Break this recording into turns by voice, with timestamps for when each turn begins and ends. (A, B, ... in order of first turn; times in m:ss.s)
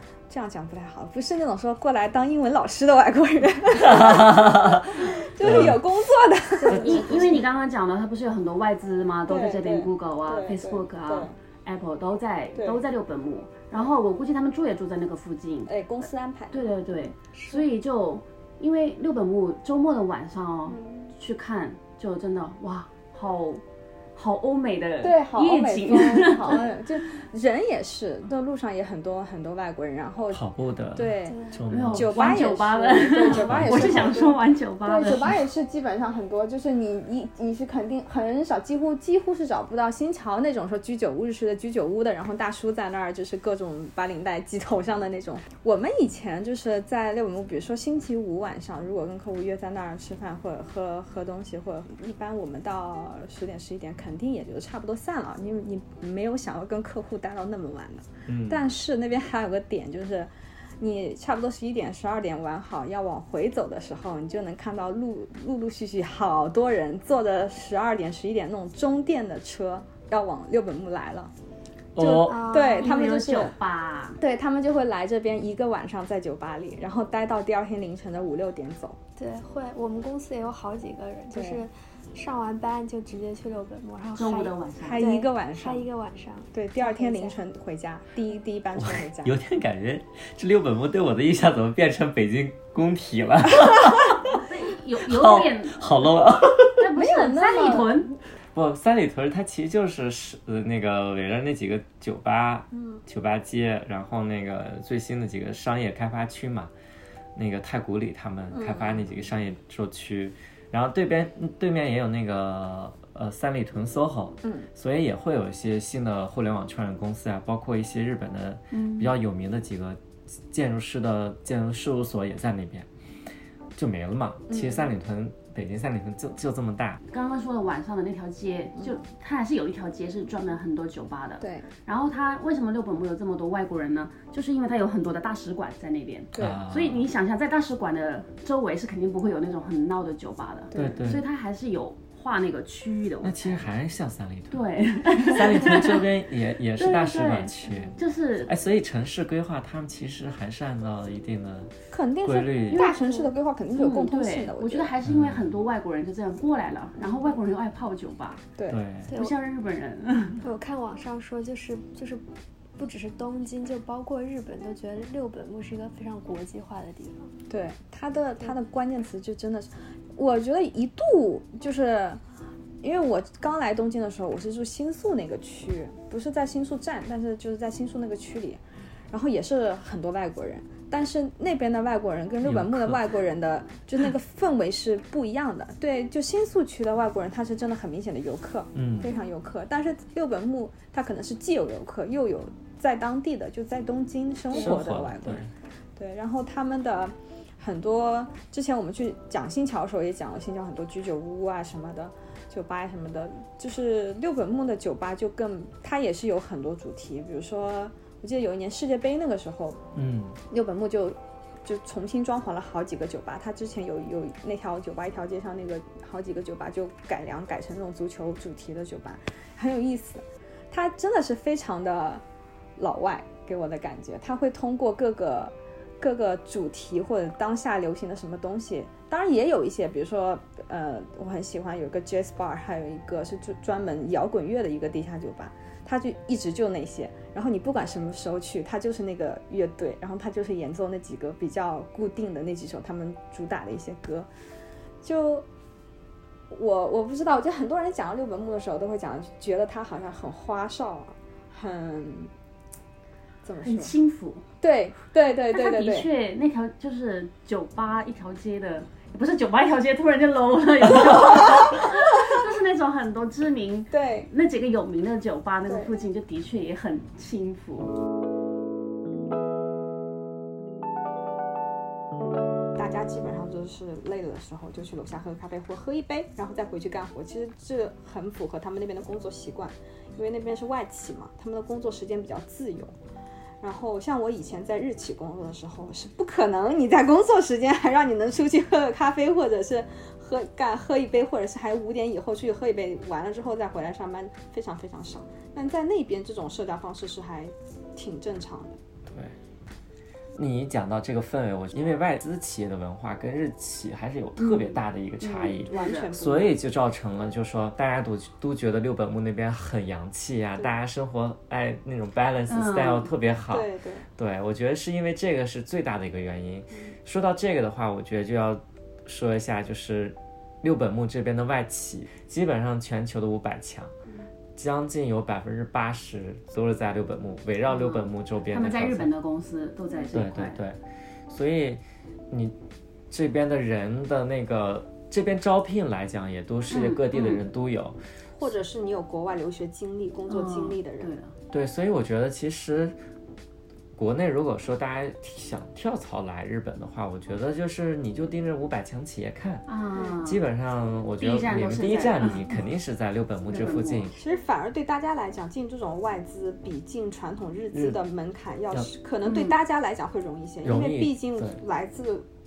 0:00.3-0:07.4 A
0:03.7-0:05.8 B
0:06.6-0:15.7 C
0:06.7-0:07.1 B
0:09.3-0:11.4 A
0:12.5-0:12.8 A
0:15.7-0:16.7 A
0:16.5-0:23.6 C
0:17.3-0:17.6 D
0:20.7-0:21.1 A
0:24.1-0:26.7 C
0:25.0-1:11.3 A
0:30.3-0:32.2 B
0:31.3-0:31.5 D
0:31.7-0:35.3 C
0:33.3-0:34.2 B
0:58.3-0:58.6 B
1:12.0-1:12.5 B
1:12.0-1:13.5 A
1:12.2-1:12.9 D
1:12.6-1:14.2 C
1:14.2-1:19.0 A
1:19.2-1:27.4 D
1:21.3-1:21.6 A
1:24.2-1:25.1 C
1:24.8-1:25.9 A
1:26.5-1:29.3 A
1:28.8-1:34.2 B
1:34.4-1:36.1 C
1:35.0-1:36.8 B
1:36.8-1:38.2 C
1:36.9-1:38.0 A
1:38.5-1:46.7 B
1:42.7-1:43.0 A
1:47.3-2:02.9 B
1:48.5-1:49.1 A
1:58.7-1:59.1 C
2:03.8-2:07.0 B
2:04.5-2:04.9 A
2:07.1-2:23.6 C
2:11.4-2:11.7 A
2:16.3-2:16.6 A
2:16.4-2:17.0 B
2:20.7-2:21.0 A
2:20.7-2:21.2 B
2:23.2-2:32.8 B
2:24.5-2:26.0 C
2:26.8-2:28.5 C
2:31.9-2:34.9 A
2:32.7-2:33.0 C
2:32.7-2:33.3 D
2:33.7-2:38.4 C
2:35.0-2:35.5 B
2:38.7-2:39.1 B
2:39.1-2:39.3 D
2:39.1-2:40.4 C
2:40.4-2:42.2 D
2:42.8-2:47.3 D
2:47.5-2:52.2 A
2:52.8-3:29.8 A
3:02.4-3:03.0 B
3:08.7-3:09.1 B
3:14.5-3:15.5 B
3:29.9-3:30.4 B
3:30.5-3:42.2 A
3:42.8-4:04.3 A
4:05.0-4:05.4 A
4:06.5-4:12.3 A
4:13.4-4:13.9 A
4:13.6-4:14.4 C
4:14.6-4:16.1 A
4:15.5-4:27.9 C
4:23.9-4:24.3 A
4:32.8-4:42.9 A
4:43.6-4:58.8 A
4:59.1-4:59.3 B
5:00.3-5:23.9 B
5:05.2-5:06.1 C
5:05.7-5:06.6 A
5:12.5-5:13.1 C
5:13.5-5:14.0 A
5:24.6-5:29.1 B
5:27.7-5:30.6 C
5:30.1-5:32.5 B
5:33.1-5:38.0 B
5:36.7-5:37.4 C
5:38.4-5:41.1 A
5:40.3-5:41.3 C
5:41.5-5:43.0 B
5:44.0-5:49.6 B
5:49.7-5:50.4 C
5:50.2-5:54.2 B
5:51.2-5:52.5 C
5:53.5-5:54.1 C
5:54.2-6:02.2 A
5:57.7-5:58.0 B
5:59.2-5:59.6 C
6:00.6-6:01.6 B